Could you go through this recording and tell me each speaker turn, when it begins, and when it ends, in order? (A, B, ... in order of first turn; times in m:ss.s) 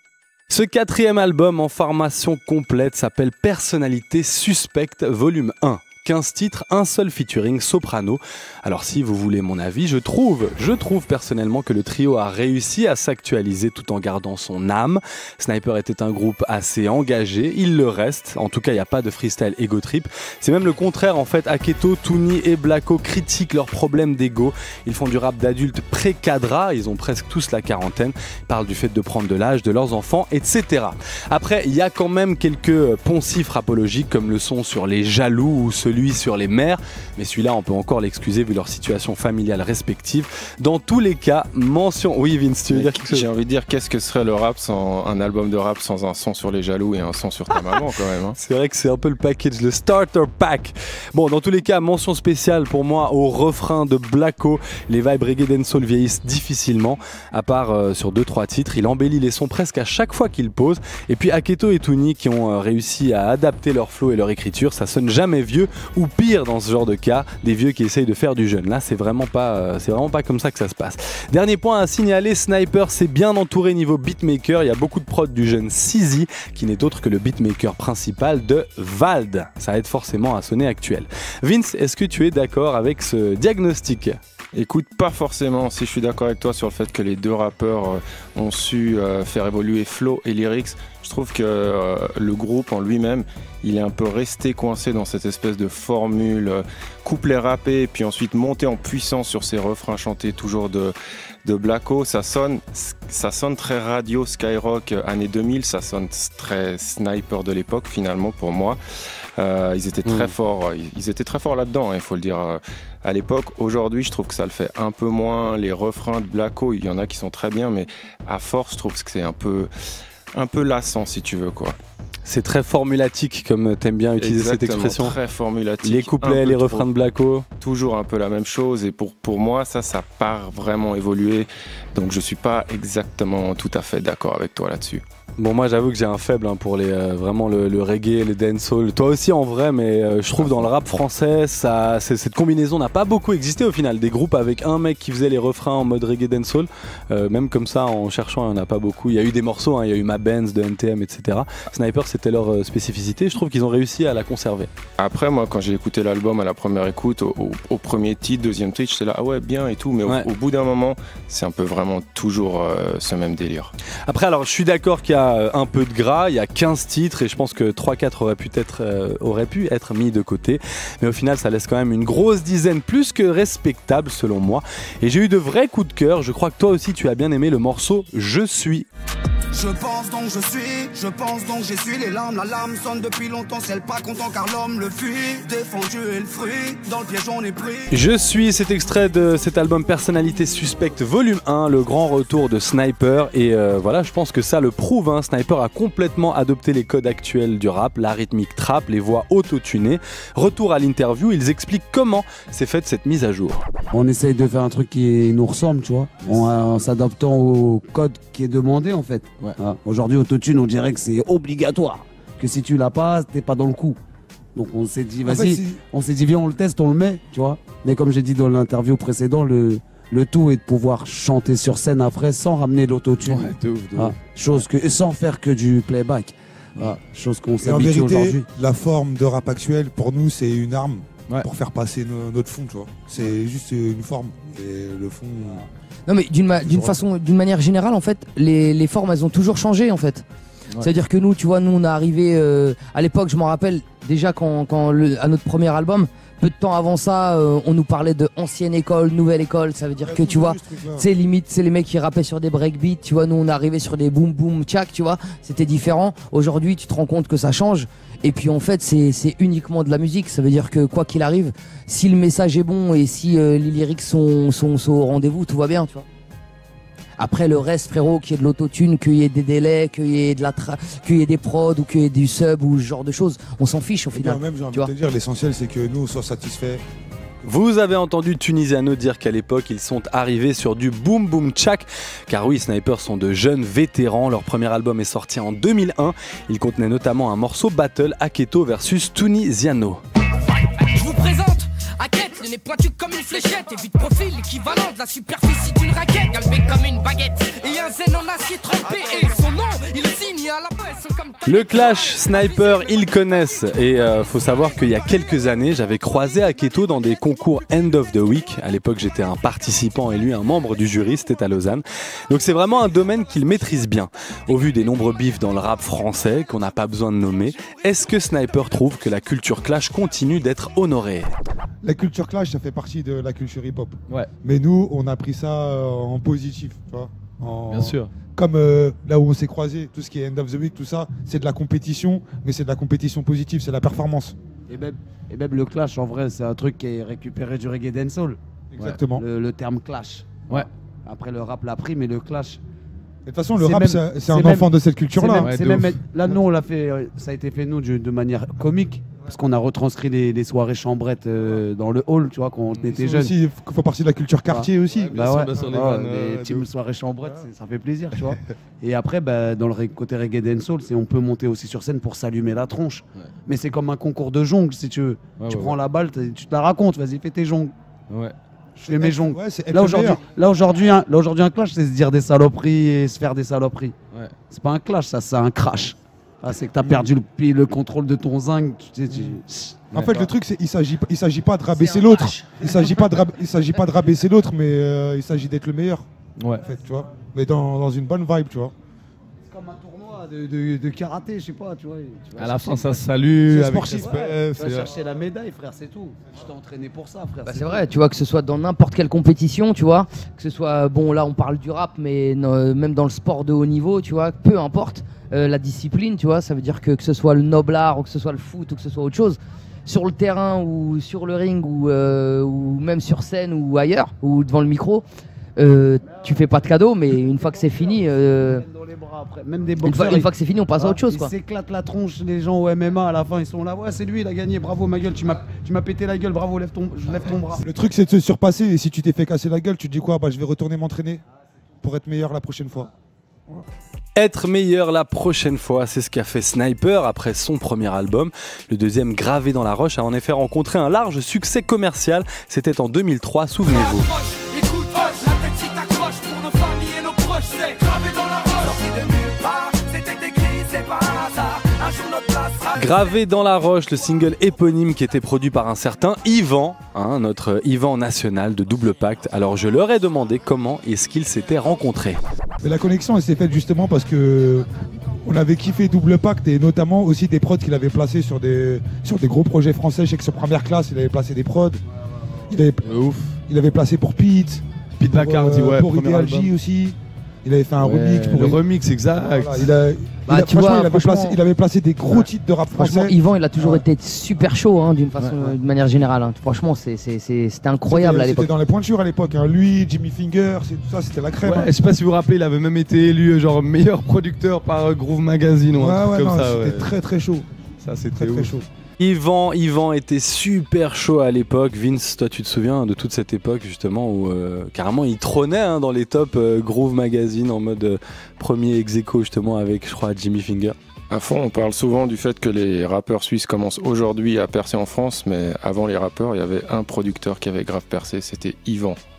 0:00.5-0:43.3 A
0:42.7-0:48.4 B
0:48.4-1:24.2 A
1:24.5-1:40.9 B
1:41.4-1:48.8 B
1:49.4-1:59.7 B
1:50.0-1:50.3 A
2:00.3-2:01.8 B
2:02.3-2:05.2 A
2:04.2-2:06.9 B
2:05.8-2:07.4 A
2:07.6-2:15.0 B
2:15.4-2:34.7 A
2:20.4-2:20.6 B
2:35.0-2:43.7 B
2:44.1-2:58.9 A
2:59.5-3:07.7 C
3:07.9-3:23.6 A
3:23.9-3:34.0 D
3:34.6-3:48.4 D
3:35.2-3:35.8 E
3:43.2-3:44.2 F
3:47.6-3:55.7 E
3:56.1-4:00.2 G
3:56.6-3:57.0 E
4:00.8-4:26.0 G
4:10.0-4:11.1 E
4:27.2-4:34.9 G
4:34.1-4:36.8 E
4:37.4-4:50.0 A
4:50.6-5:03.3 H
5:01.5-5:21.3 A
5:21.8-5:34.4 E
5:27.7-5:28.1 F
5:34.7-5:38.4 D
5:38.7-5:39.2 E
5:38.8-5:39.0 F
5:39.1-5:42.6 D
5:43.3-5:45.5 E
5:43.6-5:53.4 D
5:45.4-5:46.0 F
5:52.9-5:55.2 E
5:54.5-6:07.7 D
5:54.9-5:56.7 F
6:05.4-6:05.8 F
6:08.1-6:08.4 F
6:08.8-6:10.2 E
6:08.8-6:14.0 D
6:14.5-6:20.3 D
6:16.8-6:17.1 E
6:19.9-6:26.1 E
6:26.4-6:26.6 F
6:26.6-6:28.7 E
6:29.5-6:33.0 D
6:32.4-6:34.9 F
6:33.5-6:34.1 E
6:34.0-6:37.9 D
6:37.4-6:55.0 G
6:55.6-6:58.6 G
6:58.4-7:07.6 D
6:59.8-7:01.3 G
7:07.6-7:11.2 E
7:11.8-7:12.9 E
7:14.2-7:24.1 A
7:24.1-7:31.2 H
7:25.0-7:25.3 C
7:28.1-7:28.4 C
7:29.1-7:29.8 C
7:31.0-7:32.7 C
7:32.8-7:42.2 A
7:42.6-7:44.7 E
7:45.2-7:51.8 E
7:52.5-7:52.9 E
7:52.8-7:53.4 F
7:53.5-8:03.8 E
7:55.0-7:56.5 F
7:57.8-7:59.7 F
8:00.3-8:01.4 G
8:02.1-8:08.5 G
8:05.2-8:05.5 F
8:07.9-8:11.8 E
8:11.4-8:16.9 F
8:15.8-8:17.5 E
8:17.8-8:18.5 F
8:18.2-8:18.7 E
8:19.0-8:30.8 A
8:31.1-8:39.0 B